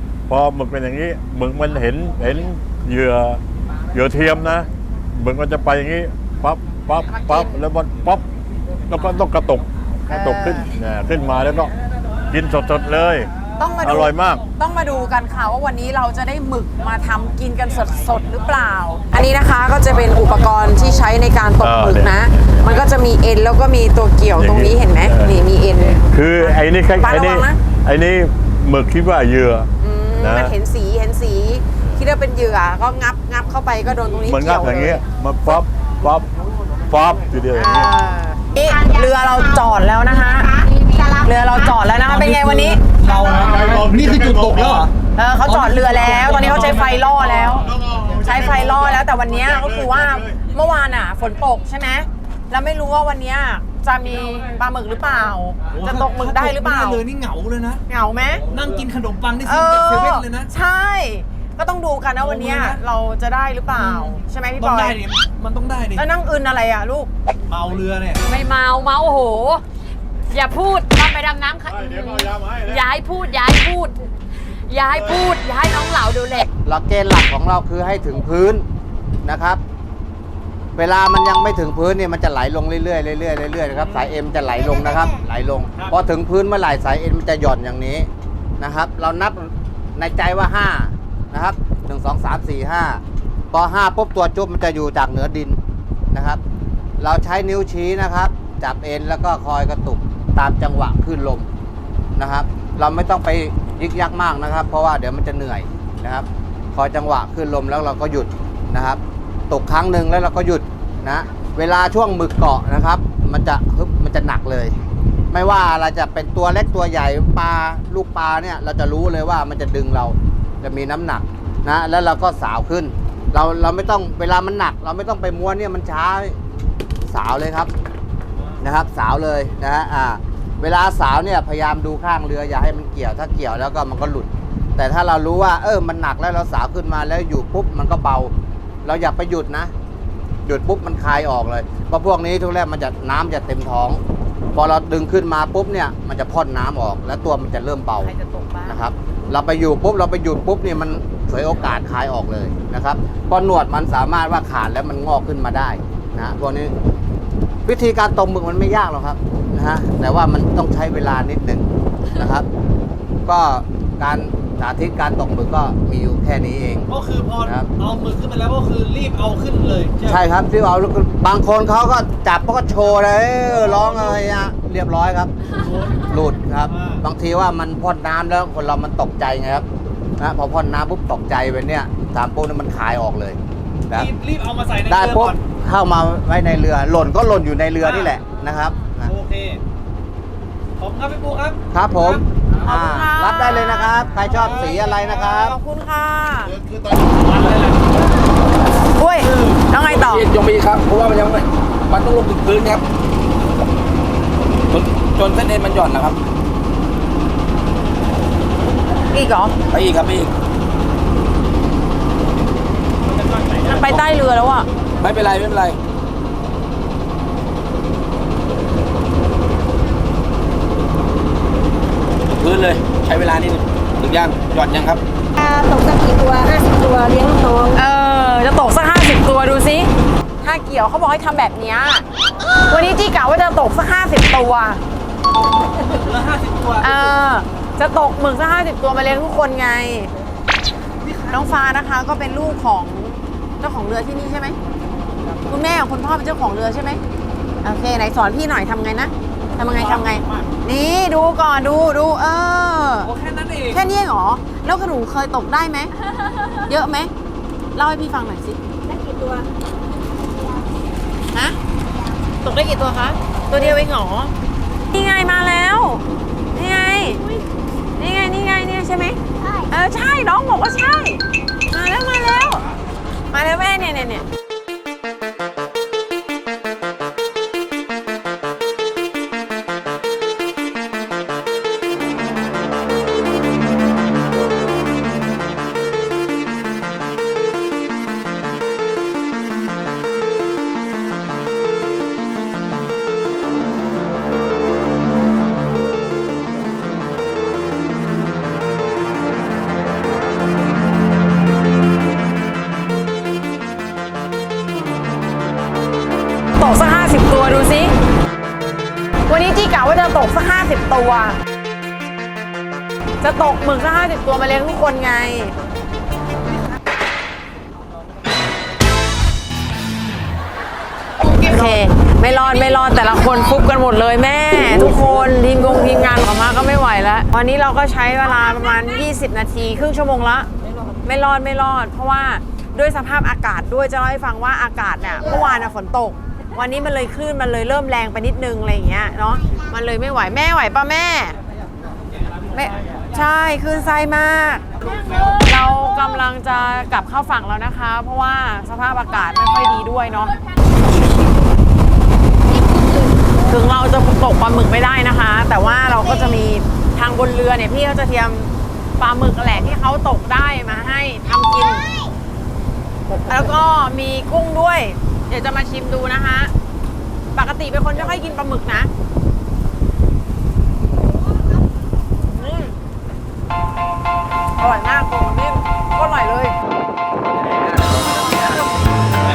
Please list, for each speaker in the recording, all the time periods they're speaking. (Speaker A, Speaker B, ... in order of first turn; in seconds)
Speaker A: 0.3-3.4, 3.9-8.2, 8.9-11.7, 12.3-13.3, 13.8-14.4, 21.6-22.8, 24.4-25.3, 26.1-30.5, 34.3-36.3, 36.9-37.9, 43.7-44.3, 71.8-72.8
Speaker B: 7.1-7.6, 10.1-10.7, 13.6-27.6, 29.8-35.0, 37.5-42.8, 45.2-57.0, 57.9-58.4, 59.5-65.0, 66.0-67.1, 148.0-148.8, 192.6-194.2, 194.8-196.6, 199.0-200.3, 209.1-209.5, 213.6-214.7, 227.7-229.9, 230.4-232.1, 232.6-234.8, 236.8-240.1, 241.3-244.6, 245.5-247.0, 247.6-253.1, 253.7-255.9, 256.5-257.1, 257.8-258.6, 261.3-261.6, 262.4-264.3, 264.9-266.0, 266.5-267.2, 268.0-272.6, 273.3-274.2, 306.6-307.9, 309.3-311.4, 313.2-315.6, 321.3-330.5, 331.0-341.4, 342.5-344.7, 345.3-350.4, 353.5-361.9, 363.1-366.5, 367.3-368.9, 372.3-372.7, 374.6-376.6
Speaker C: 42.1-44.9, 45.5-47.0, 55.7-57.8, 58.5-60.5, 62.2-62.8, 63.8-66.0, 67.5-68.2, 83.7-84.1, 166.9-170.2, 173.7-174.2, 175.6-176.1, 176.7-177.0, 183.9-185.4, 187.8-188.2, 189.1-189.6, 190.8-192.2, 194.3-195.0, 197.1-197.9, 213.2-213.9, 235.9-236.9, 241.0-241.3, 249.6-250.5, 253.0-253.8
Speaker D: 68.3-69.6, 70.3-76.5, 258.9-259.5, 267.0-267.4
Speaker E: 76.6-78.7, 79.2-79.6, 80.8-88.1, 88.6-93.0, 93.5-95.6, 96.1-96.4, 97.0-101.5, 102.2-114.8, 115.3-126.4, 127.1-127.7, 128.6-138.3, 138.8-139.7, 140.5-144.0, 144.6-148.1, 148.7-156.8, 157.7-162.5, 163.3-166.9, 170.1-175.3, 176.0-179.7, 180.2-184.1, 184.9-189.1, 191.7-195.6
Speaker F: 199.9-202.8, 204.7-206.2, 209.7-210.3, 215.0-215.8, 222.3-225.0
Speaker G: 225.4-227.6